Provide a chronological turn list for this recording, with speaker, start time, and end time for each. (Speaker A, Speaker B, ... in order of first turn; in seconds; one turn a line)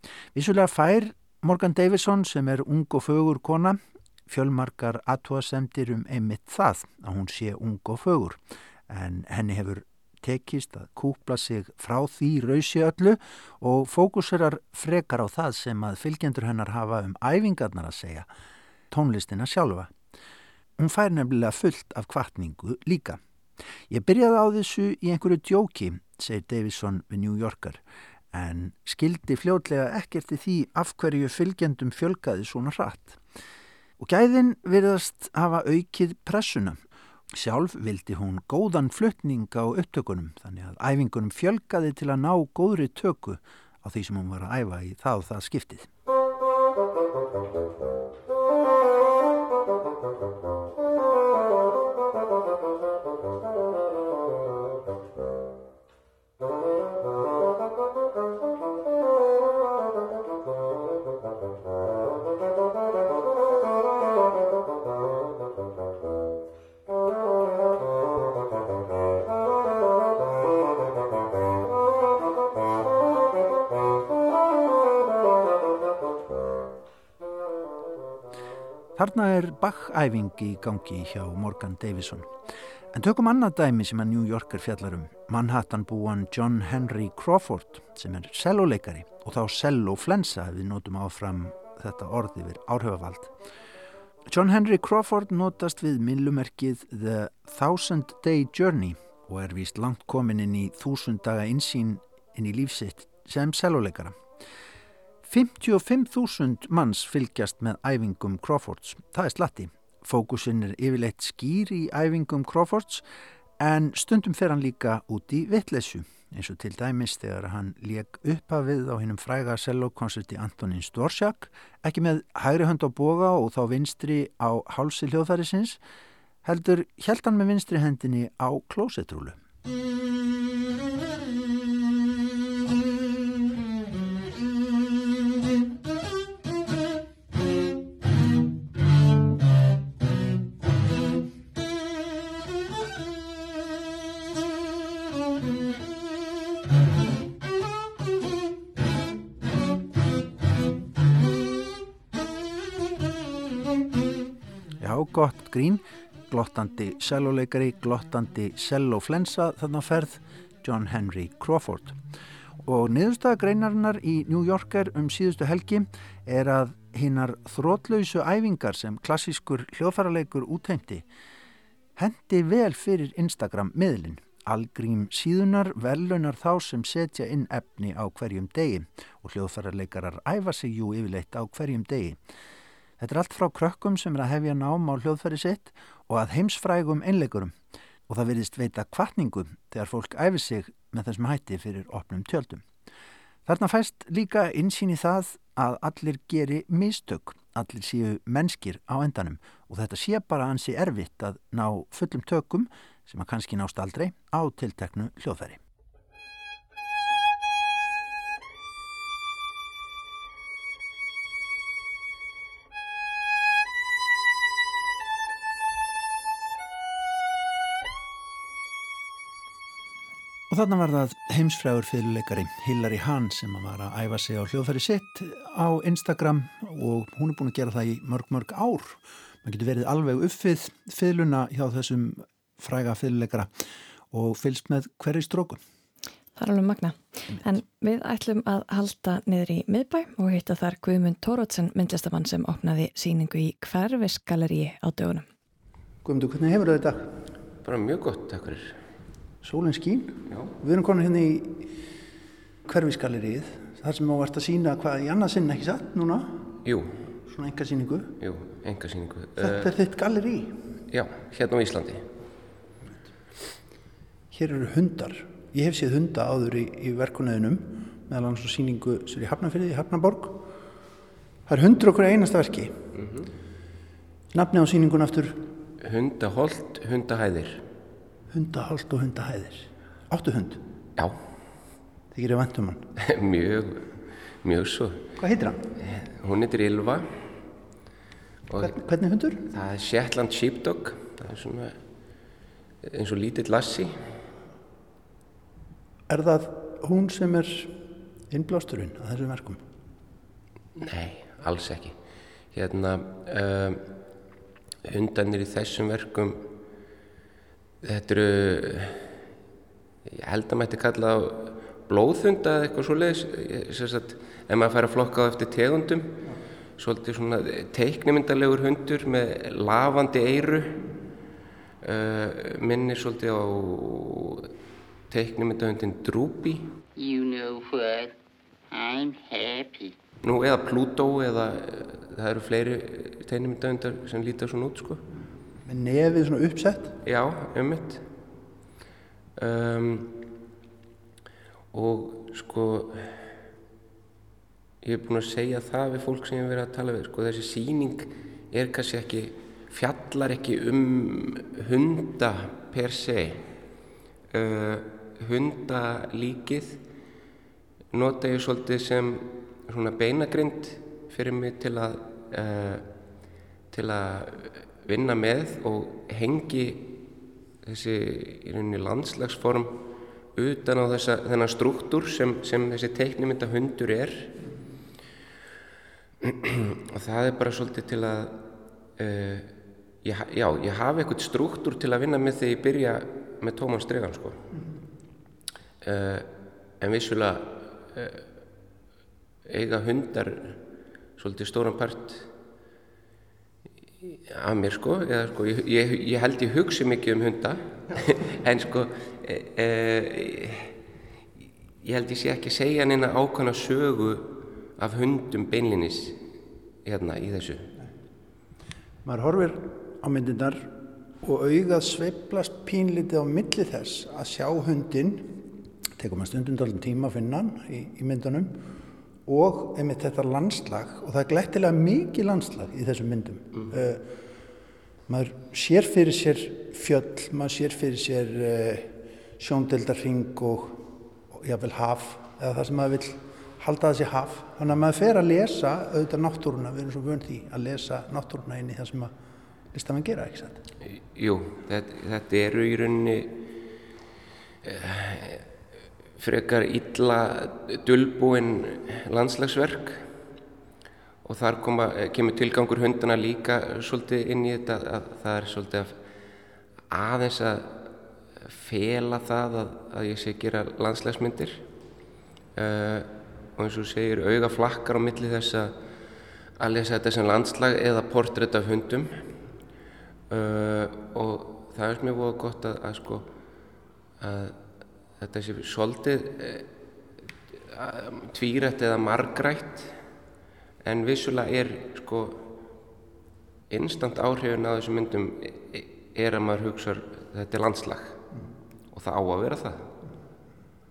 Speaker A: 0.3-18.3
Speaker A: 18.9-19.9
Speaker A: 20.8-23.2
Speaker A: 23.9-27.8
Speaker A: 28.3-33.2
Speaker A: 34.0-36.8
Speaker A: 37.3-45.9
Speaker A: 79.0-82.3
Speaker A: 82.9-93.3
Speaker A: 94.3-104.2
Speaker A: 105.2-113.0
Speaker A: 113.6-125.8
Speaker A: 126.4-129.4
Speaker A: 154.8-162.0
Speaker A: 162.6-171.1
Speaker A: 172.0-182.2
Speaker A: 183.0-187.6
Speaker A: 188.1-192.6
Speaker A: 193.4-205.6
Speaker A: 220.5-233.5
Speaker A: 234.1-235.6
Speaker B: 236.3-245.2
Speaker A: 246.0-247.1
Speaker C: 247.6-248.8
Speaker A: 249.4-251.7
Speaker A: 252.6-256.5
Speaker C: 256.6-257.0
Speaker A: 257.3-258.1
Speaker C: 258.2-259.7
Speaker A: 259.4-260.6
Speaker C: 260.9-262.1
Speaker A: 264.3-270.5
Speaker A: 271.4-272.8
Speaker C: 273.0-273.3
Speaker A: 274.3-275.5
Speaker C: 275.8-277.6
Speaker A: 278.3-280.6
Speaker A: 282.1-282.9
Speaker C: 283.0-285.0
Speaker A: 285.2-285.6
Speaker C: 285.8-287.3
Speaker C: 288.5-288.7
Speaker A: 288.6-289.4
Speaker C: 289.5-291.8
Speaker C: 292.8-294.2
Speaker A: 296.1-297.7
Speaker A: 298.3-299.6
Speaker C: 300.8-301.9
Speaker C: 302.5-303.8
Speaker C: 304.8-306.5
Speaker C: 307.8-309.1
Speaker C: 310.1-316.2
Speaker C: 316.8-320.9
Speaker C: 321.8-324.5
Speaker C: 325.1-326.7
Speaker D: 327.0-328.1
Speaker D: 328.7-329.9
Speaker C: 330.2-335.0
Speaker A: 335.6-337.0
Speaker C: 337.0-338.0
Speaker C: 339.4-340.2
Speaker C: 341.7-343.3
Speaker C: 344.8-353.5
Speaker C: 354.3-356.8
Speaker C: 357.9-362.9
Speaker C: 363.7-367.0
Speaker C: 367.6-369.8
Speaker C: 370.3-374.3
Speaker C: 376.2-378.4
Speaker C: 379.0-384.4
Speaker C: 385.8-388.3
Speaker C: 389.4-390.6
Speaker C: 391.2-392.3
Speaker C: 394.0-400.7
Speaker C: 401.8-406.2
Speaker C: 406.8-407.7
Speaker A: 409.0-415.4
Speaker A: 416.0-418.6
Speaker A: 419.2-424.0
Speaker A: 425.1-439.1
Speaker A: 439.7-440.6
Speaker C: 440.9-443.4
Speaker C: 444.6-445.4
Speaker C: 446.2-450.1
Speaker C: 451.2-455.9
Speaker C: 456.9-457.8
Speaker C: 458.4-461.6
Speaker C: 462.5-465.7
Speaker C: 466.6-469.2
Speaker C: 470.3-473.3
Speaker C: 474.2-474.6
Speaker C: 475.2-476.7
Speaker C: 477.6-479.9
Speaker C: 480.8-482.4
Speaker C: 483.7-488.2
Speaker C: 488.9-489.9